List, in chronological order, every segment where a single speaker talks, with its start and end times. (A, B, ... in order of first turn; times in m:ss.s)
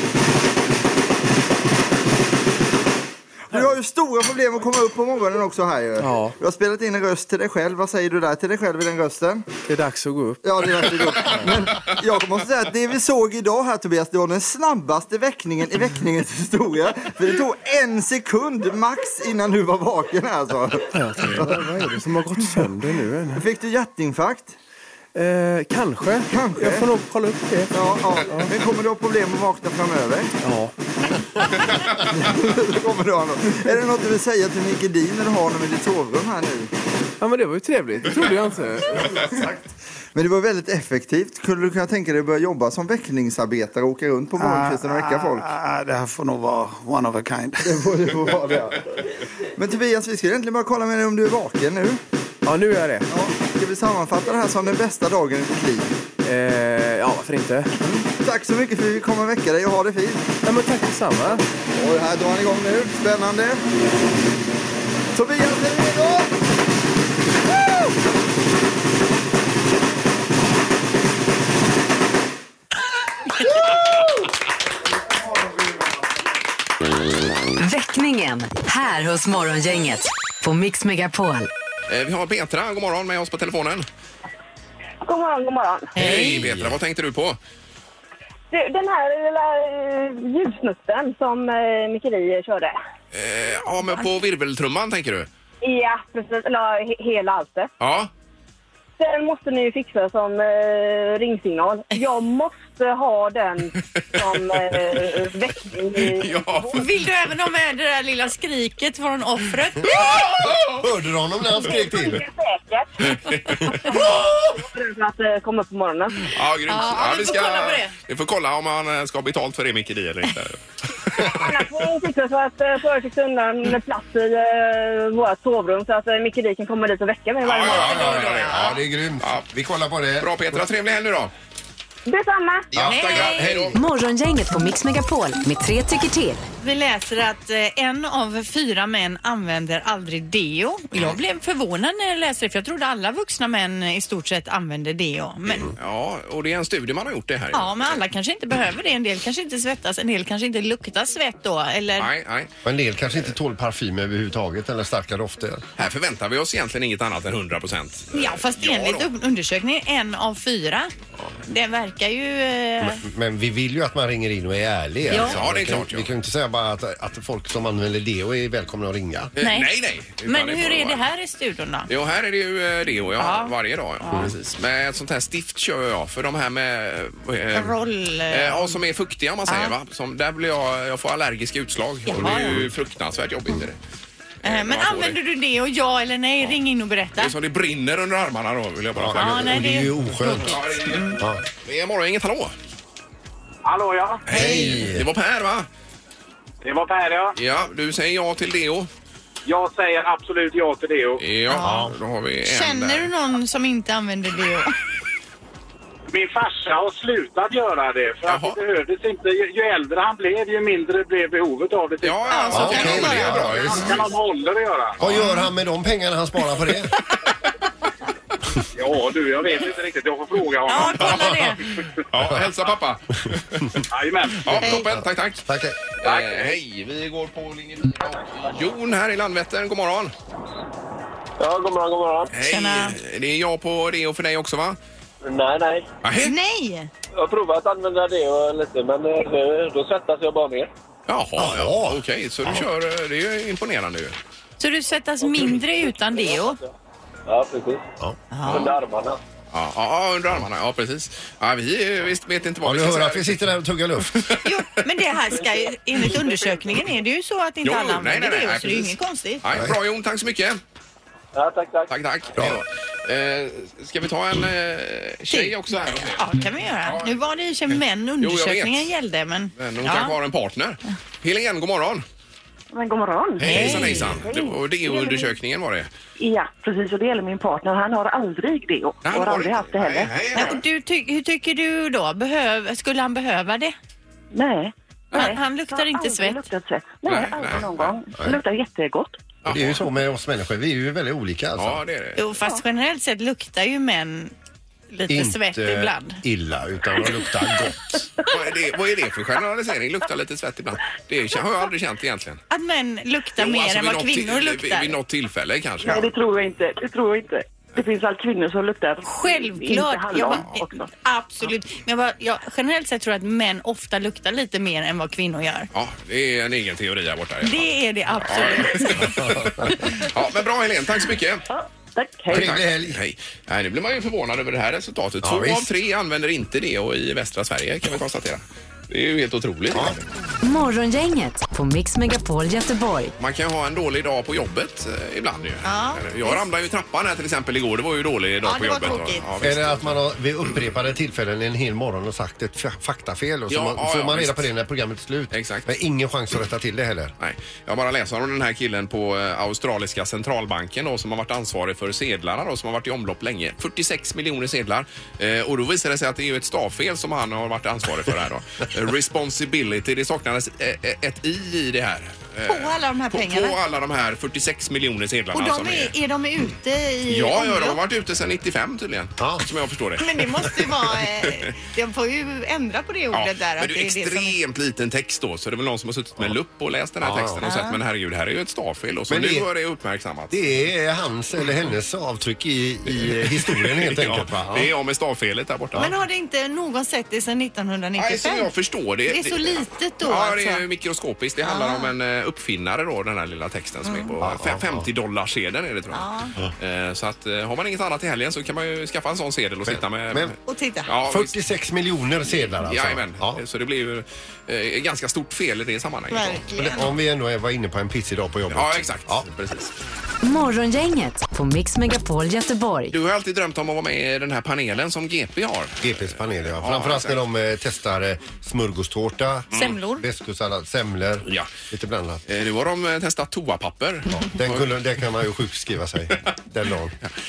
0:03.5-0:09.5 A
0:06.0-0:06.4 B
0:09.7-0:11.6 B
0:10.4-0:22.0 A
0:20.9-0:23.4 B
0:23.4-0:24.6 A
0:25.2-0:28.6 B
0:26.3-0:26.9 A
0:27.7-0:30.4 A
0:30.4-0:30.7 B
0:31.4-0:36.7 A
0:37.2-0:39.4 B
0:38.9-0:39.6 A
0:40.2-0:45.5 A
0:44.4-0:47.8 C
0:47.6-0:48.9 A
0:49.6-0:52.0 A
0:52.4-0:53.1 B
0:53.1-0:55.9 A
0:56.2-0:58.0 B
0:58.1-1:00.3 A
1:00.4-1:01.4 B
1:01.7-1:03.6 A
1:05.1-1:06.3 A
1:17.6-1:21.5 D
1:21.9-1:23.9 E
1:25.0-1:26.0 F
1:26.0-1:27.4 E
1:26.0-1:26.8 G
1:28.5-1:32.8 F
1:33.1-1:35.3 E
1:35.6-1:37.7 F
1:37.8-1:38.1 E
1:39.0-1:46.8 F
1:44.2-1:44.8 E
1:46.0-1:46.9 E
1:46.7-1:50.0 H
1:49.8-1:50.9 E
1:50.4-1:52.2 G
1:51.6-1:56.3 F
1:53.3-1:54.0 E
1:56.3-2:01.4 E
1:56.7-1:57.9 H
2:01.2-2:08.7 F
2:07.4-2:09.5 E
2:07.7-2:08.4 H
2:08.2-2:10.3 G
2:10.2-2:11.3 E
2:12.1-2:12.7 F
2:12.7-2:13.8 E
2:12.8-2:13.8 G
2:12.8-2:13.6 H
2:13.7-2:16.5 D
2:16.6-2:25.7 H
2:25.8-2:28.0 E
2:27.5-2:32.1 H
2:32.0-2:32.5 E
2:32.6-2:35.7 G
2:35.8-2:39.1 E
2:38.1-2:40.9 H
2:41.5-2:43.0 H
2:42.8-2:49.3 G
2:45.1-2:46.1 E
2:45.1-2:45.4 H
2:49.4-2:51.0 E
2:49.4-2:49.7 H
2:50.2-2:51.9 H
2:51.9-2:57.8 E
2:53.2-2:54.3 H
2:57.5-2:58.8 H
2:58.3-3:03.8 E
2:59.5-2:59.7 H
3:02.1-3:02.6 H
3:02.1-3:02.7 G
3:04.4-3:05.2 E
3:04.4-3:07.3 H
3:07.2-3:09.6 E
3:09.0-3:11.4 G
3:09.2-3:11.2 H
3:10.4-3:12.6 E
3:13.6-3:14.2 I
3:14.3-3:15.7 E
3:14.3-3:15.1 G
3:16.6-3:17.4 I
3:17.4-3:18.9 E
3:19.5-3:21.2 I
3:21.2-3:23.1 E
3:21.5-3:21.9 H
3:21.6-3:22.0 G
3:22.4-3:24.8 H
3:26.1-3:32.4 I
3:28.3-3:28.6 E
3:32.0-3:34.0 E
3:32.3-3:33.8 H
3:32.5-3:34.0 G
3:33.6-3:35.0 I
3:35.0-3:37.0 G
3:35.2-3:35.4 H
3:38.8-3:41.2 I
3:40.7-3:41.6 H
3:42.1-3:43.8 E
3:43.9-3:44.6 I
3:44.4-3:45.4 E
3:44.6-3:44.9 H
3:44.8-3:45.8 G
3:46.0-3:50.1 E
3:46.3-3:46.6 J
3:51.4-3:52.3 J
3:52.3-3:54.8 E
3:52.4-3:53.0 H
3:55.2-3:55.9 J
3:56.0-3:56.3 E
3:56.2-3:56.9 H
3:57.2-4:00.7 J
4:01.1-4:04.2 E
4:01.4-4:02.7 G
4:04.6-4:06.6 H
4:05.2-4:06.7 J
4:07.3-4:07.8 J
4:08.3-4:08.7 H
4:08.4-4:09.2 J
4:09.5-4:13.4 E
4:12.6-4:14.4 G
4:14.1-4:14.4 E
4:14.4-4:19.4 H
4:15.3-4:16.9 J
4:17.6-4:20.6 E
4:19.5-4:19.8 G
4:21.4-4:21.9 J
4:21.9-4:26.3 E
4:22.4-4:22.6 G
4:25.3-4:30.2 H
4:26.8-4:27.2 E
4:28.2-4:28.9 E
4:29.6-4:32.0 E
4:32.7-4:35.3 K
4:33.4-4:35.9 E
4:33.4-4:34.2 H
4:36.2-4:40.5 K
4:39.0-4:40.6 E
4:40.4-4:43.8 H
4:44.3-4:49.2 K
4:45.1-4:45.4 E
4:45.1-4:46.5 H
4:47.0-4:48.0 E
4:49.4-4:49.9 E
4:49.5-4:51.8 G
4:51.6-4:52.2 E
4:52.2-4:54.3 H
4:54.9-4:56.2 H
4:55.1-4:58.1 G
4:58.2-5:02.4 E
5:02.5-5:05.0 H
5:03.4-5:06.1 E
5:05.8-5:10.9 K
5:09.0-5:10.5 H
5:10.4-5:10.7 E
5:11.0-5:15.7 H
5:15.7-5:21.4 E
5:17.4-5:19.2 H
5:19.0-5:19.7 G
5:21.5-5:22.5 K
5:22.3-5:23.0 G
5:22.4-5:30.0 E
5:25.2-5:25.7 G
5:29.7-5:30.0 G
5:30.4-5:33.1 D
5:33.2-5:40.0 E
5:35.6-5:36.5 H
5:38.4-5:39.2 H
5:39.4-5:47.1 G
5:43.5-5:44.5 E
5:45.3-5:45.7 E
5:47.2-6:05.9 E
6:02.5-6:03.6 H
6:05.3-6:07.8 H
6:07.1-6:11.5 E
6:09.2-6:09.5 G
6:10.0-6:14.4 H
6:13.1-6:20.4 E
6:17.0-6:17.4 G
6:17.4-6:17.8 H
6:19.1-6:19.5 G
6:20.3-6:24.7 G
6:23.0-6:25.9 E
6:25.8-6:28.5 H
6:28.0-6:36.1 E
6:29.1-6:30.6 H
6:31.4-6:31.9 H
6:34.2-6:34.9 G
6:35.9-6:36.3 H
6:36.6-6:41.4 E
6:39.6-6:40.4 G
6:40.5-6:40.9 H
6:41.0-6:43.4 G
6:42.5-6:46.4 E
6:46.1-6:47.0 H
6:46.6-6:49.3 G
6:48.5-6:49.7 E
6:50.2-6:53.0 D
6:52.9-6:57.2 E
6:55.8-7:02.2 G
6:59.5-7:00.0 H
7:01.3-7:01.5 E
7:02.3-7:04.7 E
7:04.2-7:07.0 G